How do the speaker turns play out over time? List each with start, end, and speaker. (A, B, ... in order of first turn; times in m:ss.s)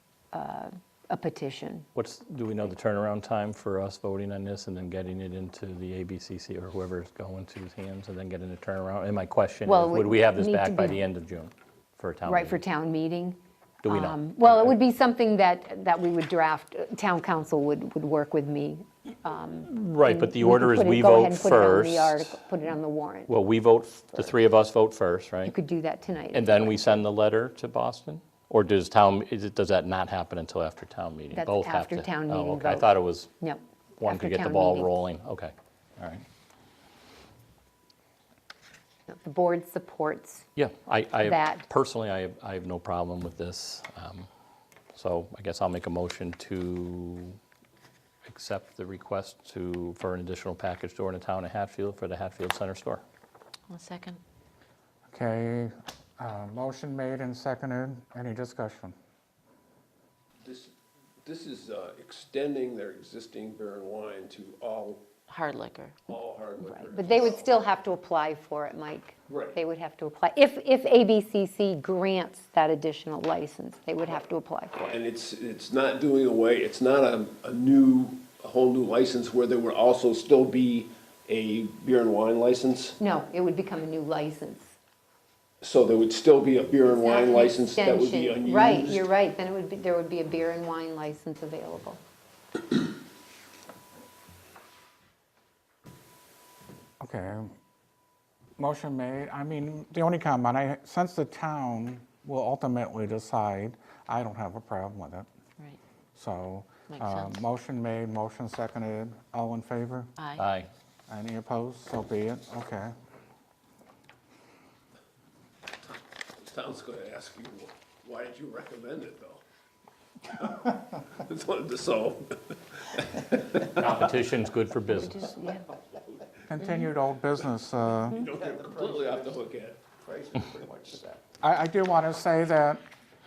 0:00.3-0:01.9 A
0:02.0-0:12.6 B
0:09.6-0:11.1 A
0:12.2-0:23.3 A
0:13.8-0:14.7 B
0:19.6-0:22.4 B
0:23.3-0:25.6 B
0:25.4-0:26.8 A
0:26.3-0:33.3 B
0:31.3-0:34.9 A
0:34.0-0:36.2 B
0:39.1-0:40.5 A
0:40.6-0:44.3 B
0:41.2-0:41.7 A
0:44.9-0:47.4 B
0:48.2-0:53.0 B
0:53.7-0:54.2 C
0:55.1-0:59.0 D
1:00.4-1:00.7 E
1:01.2-1:05.0 E
1:05.3-1:06.0 C
1:06.1-1:07.7 E
1:06.8-1:14.9 A
1:09.3-1:09.6 E
1:14.8-1:23.0 E
1:23.0-1:24.7 A
1:25.6-1:29.1 E
1:26.9-1:32.0 A
1:37.0-1:37.6 D
1:38.6-1:45.3 D
1:46.2-1:50.1 D
1:46.9-1:47.4 C
1:50.2-1:50.4 C
1:50.4-1:50.7 B
1:51.1-1:52.9 D
1:56.4-1:59.4 E
2:00.3-2:04.0 E
2:03.6-2:05.4 B
2:06.5-2:08.3 D
2:08.1-2:09.9 E
2:08.2-2:09.4 F
2:10.0-2:11.2 F
2:11.4-2:12.8 D